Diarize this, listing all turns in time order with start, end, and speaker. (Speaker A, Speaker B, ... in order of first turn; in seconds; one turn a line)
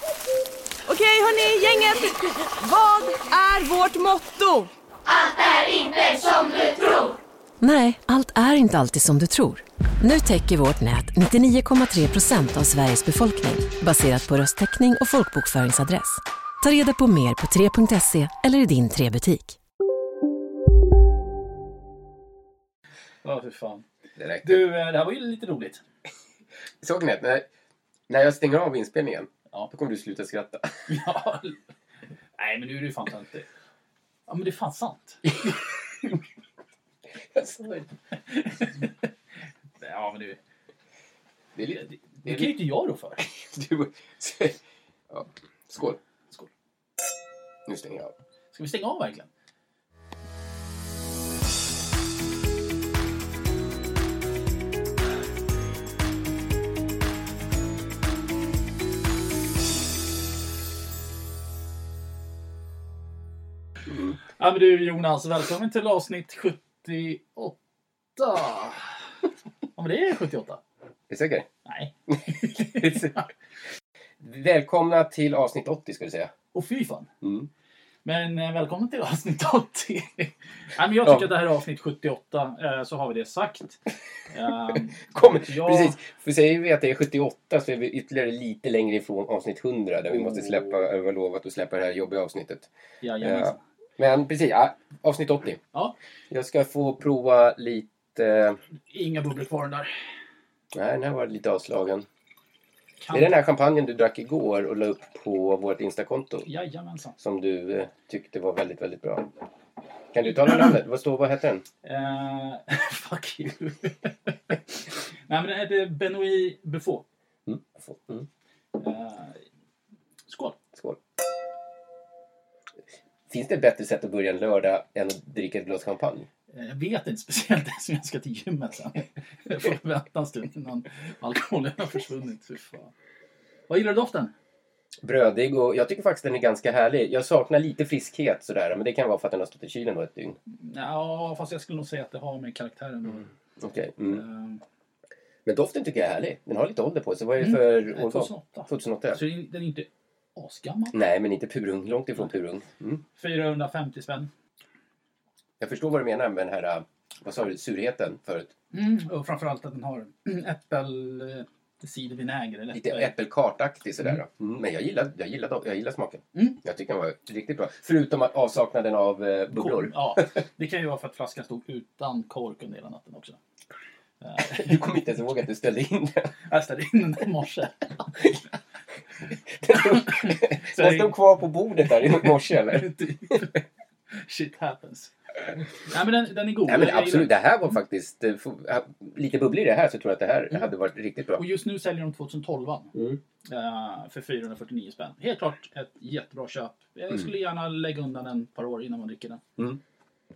Speaker A: 0.9-4.7
Speaker B: 5.8-6.6
Speaker B: 7.6-19.6
Speaker C: 23.2-23.8
Speaker D: 24.2-24.6
Speaker C: 24.4-25.8
Speaker D: 26.8-27.5
Speaker D: 28.1-31.0
Speaker C: 30.9-31.6
Speaker C: 32.4-33.5
Speaker C: 34.3-35.6
Speaker D: 37.3-37.9
Speaker C: 38.1-39.1
Speaker C: 39.8-40.4
Speaker D: 41.5-42.5
Speaker C: 41.7-43.2
Speaker D: 43.4-44.6
Speaker D: 45.1-46.0
Speaker D: 47.7-48.1
Speaker C: 48.5-49.3
Speaker C: 64.4-67.6
Speaker C: 68.2-68.9
Speaker C: 69.8-70.6
Speaker D: 71.1-71.5
Speaker C: 71.7-73.2
Speaker D: 72.3-73.2
Speaker D: 74.2-76.3
Speaker C: 76.5-77.1
Speaker D: 77.2-77.5
Speaker C: 78.0-86.0
Speaker D: 85.1-92.7
Speaker C: 90.1-90.8
Speaker C: 93.0-93.6
Speaker D: 93.2-95.6
Speaker D: 96.3-98.6
Speaker C: 98.9-99.9
Speaker D: 100.7-102.1
Speaker C: 103.0-103.3
Speaker D: 103.1-106.5
Speaker C: 106.5-107.2
Speaker D: 107.2-109.3
Speaker D: 110.1-111.6
Speaker C: 111.8-117.0
Speaker D: 117.5-118.3
Speaker C: 118.7-119.4
Speaker C: 120.3-120.6
Speaker D: 120.7-121.0
Speaker D: 123.3-126.3
Speaker C: 126.5-132.9
Speaker C: 133.7-134.3
Speaker D: 135.0-140.4
Speaker C: 140.6-143.3
Speaker D: 143.6-144.2
Speaker C: 144.1-144.6
Speaker D: 145.4-149.2
Speaker C: 147.4-150.9
Speaker D: 150.9-153.0
Speaker C: 153.2-154.3
Speaker D: 155.6-158.5
Speaker C: 158.7-163.1
Speaker D: 162.7-170.2
Speaker C: 166.3-166.6
Speaker C: 169.6-173.4
Speaker C: 174.2-175.0
Speaker D: 174.5-176.4
Speaker C: 176.5-178.4
Speaker D: 179.6-183.4
Speaker C: 179.7-181.1
Speaker C: 182.0-185.1
Speaker C: 185.8-187.3
Speaker D: 186.7-191.4
Speaker C: 191.3-192.9
Speaker C: 193.4-199.4